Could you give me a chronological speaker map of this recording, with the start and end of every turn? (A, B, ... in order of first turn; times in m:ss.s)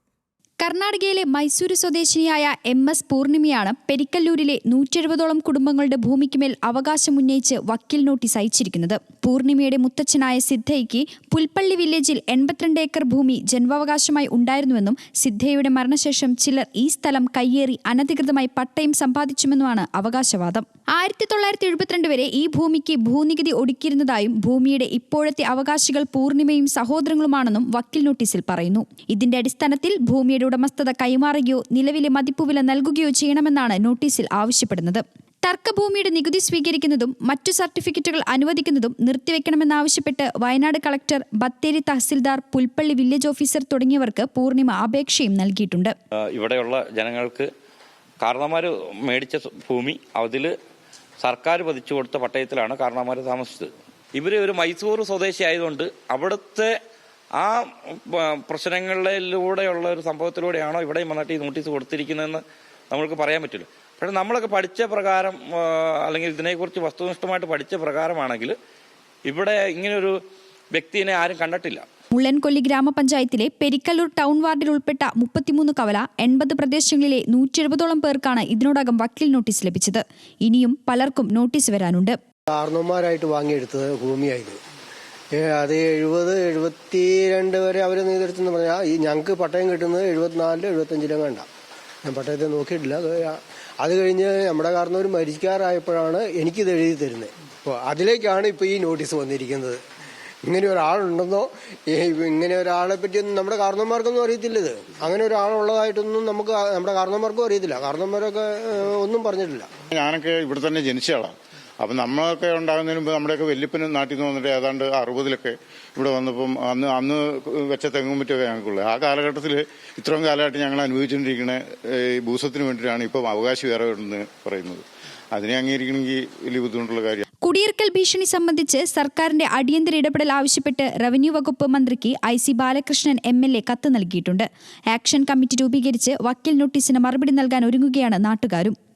0:00.6-0:45.9 A
0:46.3-0:47.5 B
0:48.2-0:50.5 B
0:51.2-0:56.7 B
0:57.4-1:08.6 B
1:09.3-1:10.2 B
1:10.7-1:11.8 B
1:12.1-1:22.2 A
1:22.5-1:24.6 C
1:25.3-1:31.5 C
1:32.0-1:39.8 C
1:40.4-1:49.7 C
1:49.9-2:04.8 D
2:05.3-2:07.2 D
2:07.4-2:18.7 A